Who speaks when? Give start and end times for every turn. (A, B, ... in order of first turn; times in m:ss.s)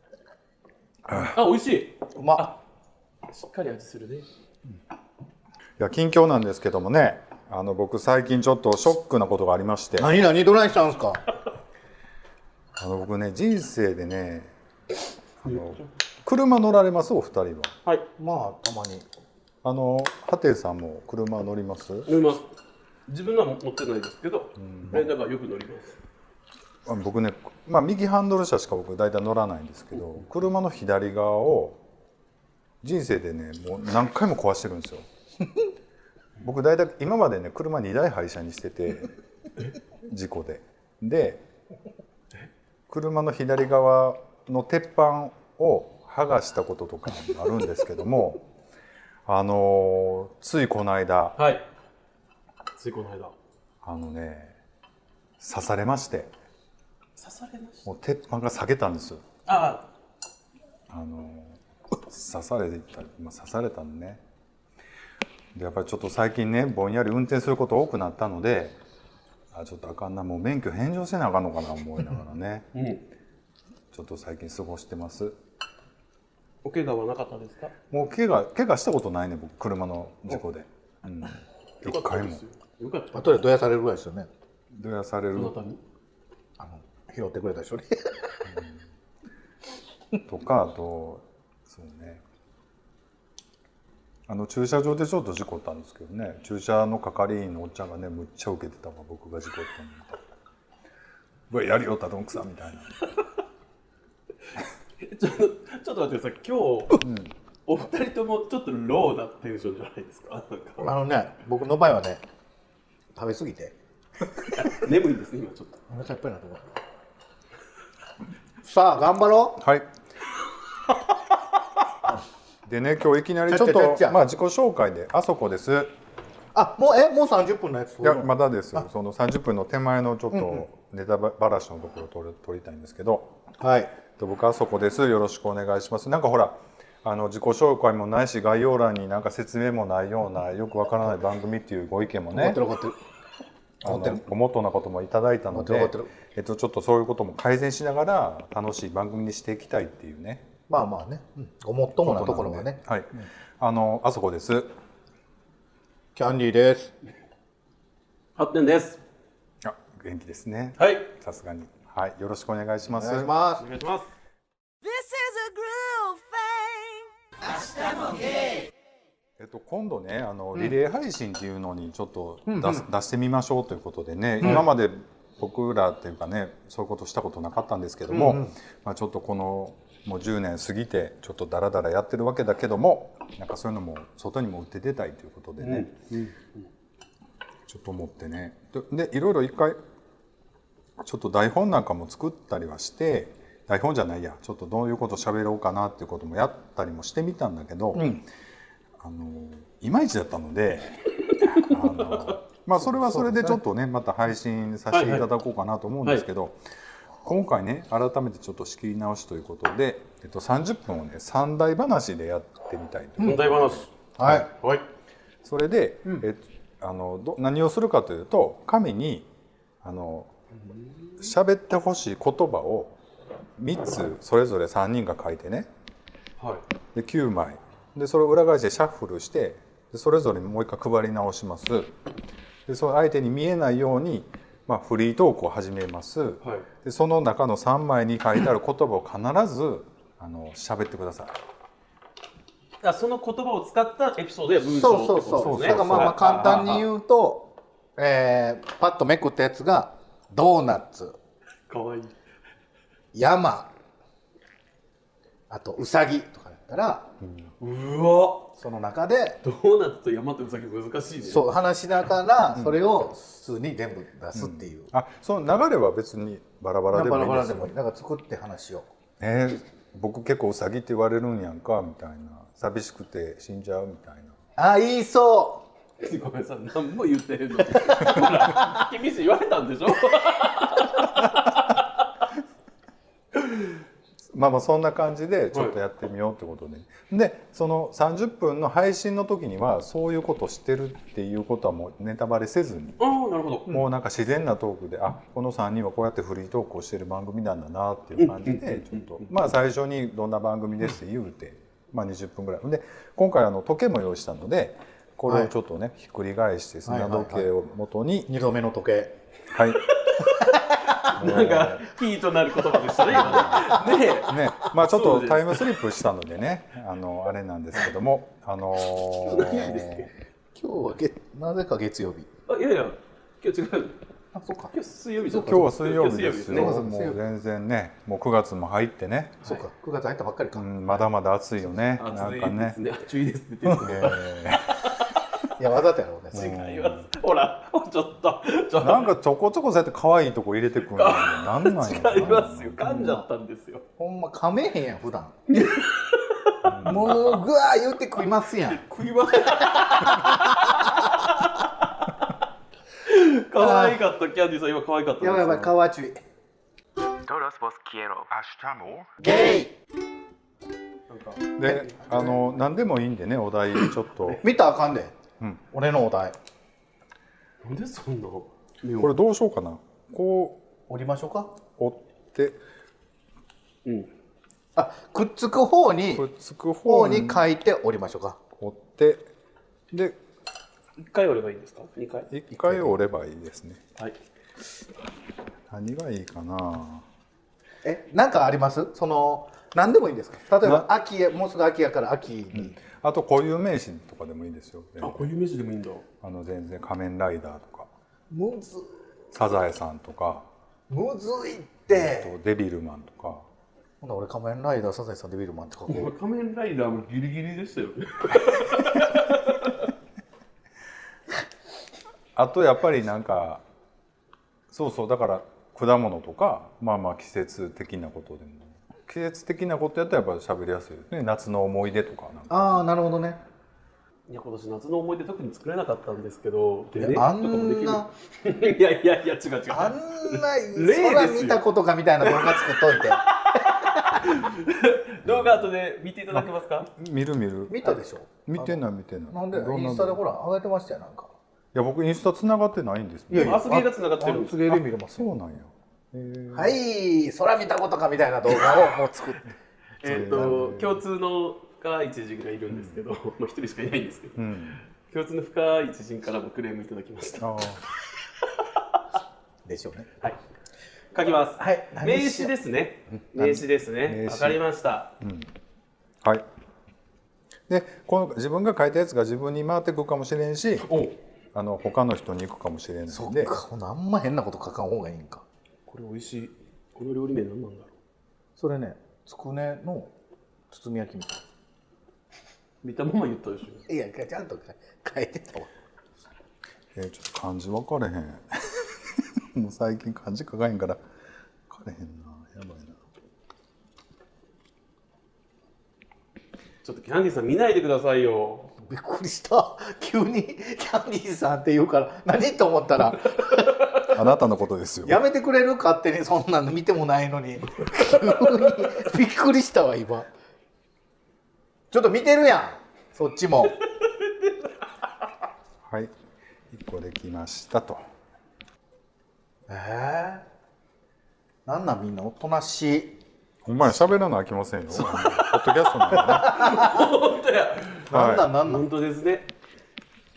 0:01.1-0:01.4 A
0:01.3-0:02.6 B
0:02.2-0:02.5 C
0:03.3-0:04.3 B
0:05.8-0:10.2 A
0:10.0-0:11.2 C
0:12.8-0:14.5 A
0:15.4-0:17.8 A
0:18.2-0:19.1 C
0:19.6-0:22.1 A
0:22.1-0:22.5 B
0:23.1-0:26.0 B
0:24.6-0:25.0 A
0:26.9-0:31.8 A
0:32.8-0:35.1 A
0:36.4-0:39.1 A
0:40.0-0:41.4 A
0:42.9-0:48.4 A
0:49.3-0:51.4 A
0:51.4-0:51.6 B
0:52.8-0:53.3 B
0:53.8-0:54.6 A
0:55.4-0:56.3 A
0:57.2-0:57.9 B
0:57.9-0:59.2 A
0:59.5-0:59.9 B
1:00.9-1:04.2 A
1:05.6-1:08.8 A
1:09.5-1:12.7 A
1:12.8-1:13.0 B
1:13.9-1:15.4 A
1:16.6-1:17.7 B
1:17.9-1:22.4 A
1:21.8-1:23.4 B
1:23.1-1:24.3 C
1:24.7-1:25.5 A
1:25.4-1:25.8 B
1:26.6-1:28.4 C
1:28.4-1:28.8 A
1:30.3-1:32.2 A
1:34.3-1:40.2 A
1:41.5-1:43.1 A
1:45.0-1:47.0 B
1:47.0-1:47.3 A
1:47.7-1:50.9 B
1:50.8-1:52.2 C
1:53.1-1:53.8 C
1:54.5-1:55.8 B
1:55.9-1:56.8 C
1:58.6-1:59.6 C
1:59.6-1:59.9 A
2:02.7-2:05.9 A
2:03.5-2:04.2 C
2:06.5-2:08.9 C
2:08.0-2:13.4 A
2:10.3-2:10.6 C
2:13.6-2:13.9 C
2:14.2-2:22.6 A
2:22.3-2:23.0 C
2:23.8-2:30.5 A
2:23.8-2:24.2 C
2:25.5-2:26.1 C
2:30.7-2:33.2 C
2:32.0-2:34.7 A
2:36.2-2:37.0 C
2:38.4-2:39.0 B
2:39.6-2:43.3 A
2:40.8-2:41.1 B
2:42.9-2:43.7 C
2:43.6-2:44.1 B
2:44.8-2:47.1 D
2:49.4-3:05.9 A
2:52.5-2:52.8 C
2:58.1-2:58.5 C
3:05.6-3:06.6 B
3:07.7-3:09.8 A
3:11.0-3:18.2 A
3:19.0-3:26.6 A
3:22.8-3:23.6 C
3:24.9-3:25.3 B
3:27.2-3:34.5 A
3:33.2-3:33.5 C
3:33.2-3:33.9 B
3:34.2-3:34.5 C
3:34.5-3:34.8 B
3:35.4-3:39.3 A
3:39.8-3:40.3 A
3:41.2-3:43.0 A
3:43.6-3:45.7 A
3:46.4-3:46.6 B
3:47.0-3:52.0 A
3:52.7-4:01.4 A
4:02.8-4:06.8 B
4:04.7-4:11.2 C
4:05.3-4:06.8 A
4:11.7-4:12.2 B
4:13.1-4:13.7 C
4:15.5-4:17.1 C
4:17.2-4:17.5 A
4:17.6-4:18.5 B
4:18.6-4:19.4 C
4:19.4-4:21.5 B
4:21.2-4:24.9 C
4:24.4-4:27.7 A
4:26.9-4:28.9 C
4:29.2-4:34.4 A
4:34.6-4:35.7 C
4:36.0-4:42.1 B
4:37.8-4:38.4 C
4:44.3-4:53.0 A
4:53.0-4:53.7 B
4:53.7-5:08.3 A
4:58.2-4:59.2 B
5:06.8-5:07.5 C
5:08.3-5:09.2 C
5:09.5-5:10.3 A
5:09.9-5:10.5 B
5:10.4-5:10.9 C
5:11.0-5:15.6 B
5:11.1-5:11.9 A
5:13.1-5:13.7 A
5:13.2-5:13.8 C
5:14.2-5:20.1 A
5:19.2-5:20.1 B
5:20.6-5:22.3 C
5:22.5-5:24.0 B
5:24.3-5:24.7 C
5:24.7-5:26.7 B
5:25.3-5:25.7 C
5:25.4-5:29.4 A
5:26.5-5:27.2 C
5:29.4-5:31.0 C
5:30.6-5:32.8 A
5:32.0-5:34.3 B
5:33.6-5:35.1 A
5:35.6-5:36.6 C
5:36.3-5:37.1 A
5:36.3-5:39.1 B
5:38.8-5:42.8 A
5:40.9-5:43.8 B
5:42.8-5:43.3 C
5:44.0-5:45.4 C
5:45.5-5:46.7 B
5:46.6-5:47.2 A
5:46.8-5:48.9 C
5:48.8-5:52.3 B
5:49.6-5:50.6 C
5:53.0-5:55.7 B
5:53.6-5:54.0 C
5:55.2-5:56.2 C
5:57.2-5:58.3 B
5:58.3-5:59.1 A
5:59.2-5:59.7 C
6:01.1-6:01.8 B
6:01.5-6:04.4 A
6:01.6-6:02.4 C
6:04.4-6:05.2 C
6:05.7-6:06.4 C
6:07.6-6:09.1 B
6:09.0-6:10.6 A
6:10.9-6:11.6 C
6:11.8-6:12.6 A
6:13.8-6:14.1 B
6:14.8-6:16.2 C
6:16.1-6:17.4 A
6:16.9-6:18.4 C
6:18.6-6:19.3 A
6:19.9-6:20.2 A
6:21.0-6:22.3 B
6:22.3-6:23.8 A
6:22.5-6:22.9 C
6:25.7-6:27.0 A
6:27.8-6:32.8 C
6:32.5-6:35.3 A
6:35.0-6:36.0 B
6:36.2-6:37.9 A
6:38.3-6:39.0 C
6:39.3-6:40.5 A
6:40.9-6:42.3 C
6:41.9-6:43.5 A
6:44.0-6:46.1 C
6:45.9-6:49.9 B
6:52.4-6:53.6 A
6:54.7-7:02.9 A
7:02.5-7:03.4 C
7:04.3-7:11.6 B
7:07.0-7:08.1 C
7:09.7-7:13.6 C
7:12.2-7:16.9 B
7:15.3-7:15.7 A
7:17.0-7:17.9 A
7:17.7-7:21.3 C
7:18.5-7:20.2 A
7:21.7-7:23.7 A
7:23.3-7:25.3 C
7:23.4-7:24.8 B
7:25.1-7:26.8 A
7:26.5-7:29.5 C
7:30.0-7:34.4 B
7:30.0-7:31.0 A
7:30.3-7:30.6 C
7:32.7-7:33.0 A
7:34.4-7:34.8 A
7:34.9-7:37.6 B
7:37.4-7:37.8 A
7:39.6-7:40.1 C
7:41.1-7:45.1 B
7:41.6-7:42.5 C
7:43.4-7:44.6 A
7:45.2-7:45.5 A
7:47.7-7:50.9 A
7:50.8-7:51.2 B
7:51.5-7:53.6 A
7:53.1-7:55.4 C
7:55.9-7:57.9 B
7:58.6-8:00.1 C
8:00.7-8:01.5 C
8:02.8-8:03.9 B
8:03.9-8:05.7 C
8:07.0-8:11.0 A
8:11.7-8:13.0 A
8:16.8-8:18.7 B
8:18.8-8:23.9 C
8:24.1-8:25.2 A
8:25.0-8:30.3 C
8:31.9-8:33.8 C
8:34.0-8:34.7 B
8:35.8-8:36.1 A
8:36.7-8:38.0 A
8:39.7-8:40.5 C
8:41.7-8:43.2 C
8:43.6-8:46.7 A
8:45.1-8:45.5 B
8:46.1-8:47.1 C
8:46.3-8:49.5 B
8:48.1-8:48.9 C
8:48.1-8:48.5 A